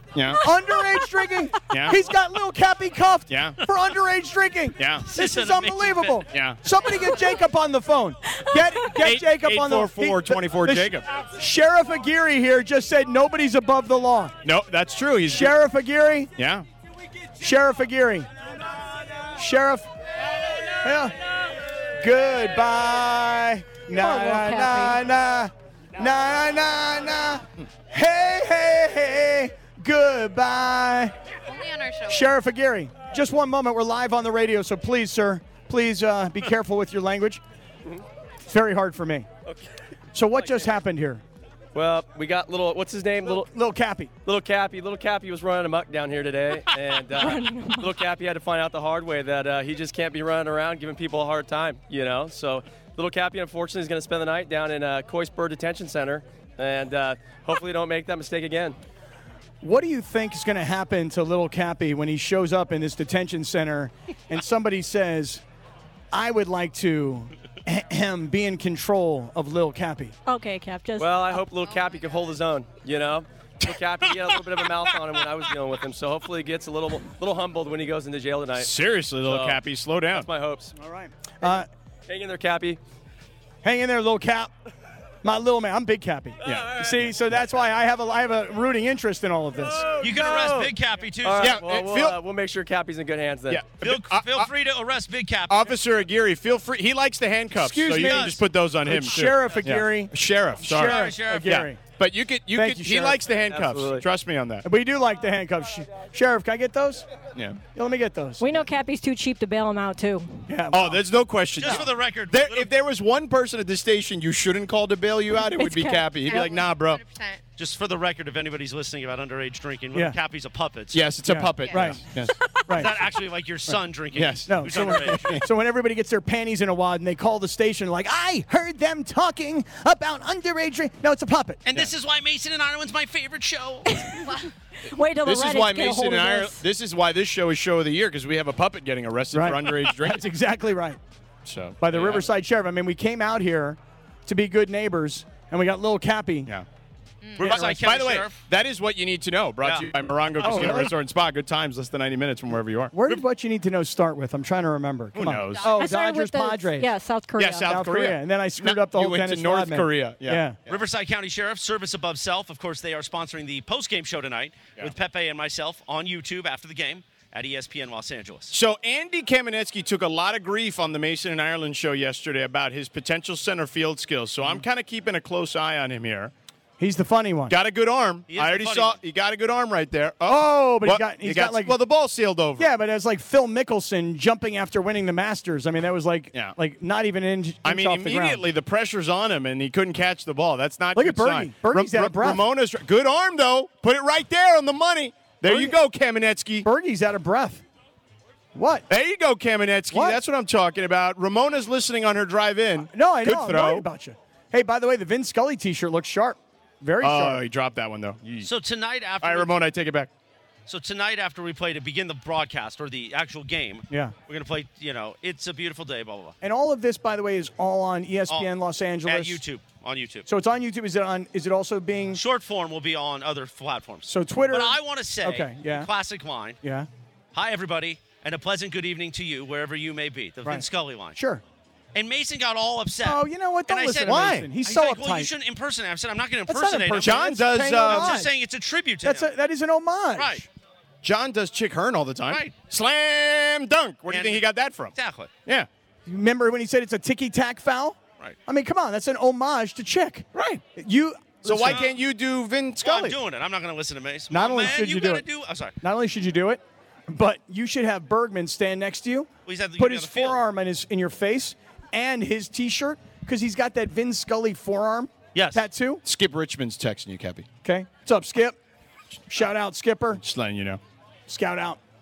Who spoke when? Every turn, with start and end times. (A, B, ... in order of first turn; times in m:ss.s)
0:00.1-0:00.4 A
0:00.3-0:14.3 B
0:01.7-0:02.0 A
0:03.3-0:03.6 A
0:04.8-0:05.0 A
0:05.0-0:06.3 C
0:06.3-0:06.6 A
0:09.0-0:11.0 A
0:14.4-0:15.6 A
0:15.3-0:16.3 B
0:16.4-0:16.6 A
0:17.4-0:18.3 B
0:19.3-0:19.9 B
0:20.8-0:21.2 B
0:22.0-0:31.1 B
0:23.9-0:25.0 D
0:31.5-0:32.3 E
0:32.1-0:37.4 B
0:38.4-0:39.3 B
0:40.1-0:41.2 B
0:41.7-0:43.5 F
0:43.2-0:44.1 B
0:44.2-0:58.8 F
0:47.2-0:47.9 D
0:59.6-1:05.4 B
1:06.1-1:10.1 B
1:10.2-1:11.4 D
1:11.0-1:20.7 F
1:11.6-1:12.3 E
1:18.6-1:20.3 A
1:20.8-1:21.7 B
1:22.1-1:22.8 F
1:23.6-1:24.5 B
1:25.2-1:30.6 B
1:26.4-1:26.8 A
1:30.0-1:30.6 F
1:30.0-1:31.6 C
1:31.2-1:33.6 F
1:31.4-1:32.2 A
1:33.5-1:34.5 A
1:33.8-1:35.8 C
1:35.5-1:44.6 A
1:37.5-1:41.8 B
1:38.0-1:38.4 C
1:40.7-1:41.6 C
1:42.5-1:43.2 B
1:43.4-1:44.0 F
1:44.6-1:47.2 B
1:47.3-1:47.6 A
1:47.7-1:48.6 B
1:48.4-1:50.5 D
1:50.5-1:51.0 B
1:50.7-1:57.0 A
1:51.6-1:52.7 C
1:55.5-1:56.4 D
1:56.3-1:57.4 E
1:57.6-2:01.1 C
2:00.9-2:02.3 A
2:01.2-2:02.0 B
2:02.7-2:05.4 C
2:04.1-2:05.5 A
2:04.5-2:11.6 B
2:11.7-2:14.0 C
2:13.9-2:16.6 D
2:15.2-2:20.2 A
2:19.3-2:21.0 B
2:21.4-2:22.3 A
2:21.8-2:26.5 B
2:27.4-2:28.4 C
2:27.4-2:33.2 A
2:29.6-2:30.8 C
2:30.4-2:30.9 B
2:32.9-2:36.9 B
2:35.1-2:35.7 A
2:35.5-2:35.9 E
2:35.8-2:37.7 D
2:37.4-2:40.5 A
2:37.6-2:40.6 B
2:40.7-2:48.5 C
2:48.5-2:56.3 A
2:56.8-2:57.5 B
2:57.5-3:02.7 A
2:58.3-2:59.0 C
3:00.2-3:01.7 B
3:02.6-3:08.4 B
3:07.6-3:16.7 A
3:10.9-3:12.4 B
3:15.4-3:15.8 B
3:16.6-3:17.6 B
3:18.5-3:18.9 B
3:18.9-3:23.8 A
3:19.9-3:20.2 B
3:22.9-3:27.4 B
3:27.0-3:28.5 A
3:28.4-3:29.6 C
3:29.2-3:30.1 A
3:30.7-3:36.3 C
3:36.4-3:39.4 B
3:39.0-3:40.3 C
3:40.3-3:42.2 B
3:42.1-3:46.6 C
3:44.1-3:45.9 B
3:46.6-3:46.9 B
3:47.3-3:51.2 C
3:51.2-3:51.4 B
3:51.9-3:59.3 C
3:53.0-3:55.3 B
3:54.0-3:54.5 A
3:56.5-3:58.3 B
3:57.0-3:58.2 A
3:59.0-4:00.4 B
4:00.1-4:00.4 C
4:01.0-4:04.9 A
4:02.3-4:02.5 C
4:04.1-4:05.3 C
4:06.0-4:11.8 B
4:10.3-4:10.6 A
4:11.4-4:13.2 A
4:11.6-4:12.0 C
4:12.8-4:15.8 C
4:14.3-4:15.2 B
4:15.8-4:26.0 B
4:19.4-4:20.4 C
4:25.3-4:25.6 C
4:26.0-4:27.5 A
4:27.6-4:28.6 B
4:29.3-4:30.2 B
4:30.2-4:30.8 A
4:31.3-4:31.8 B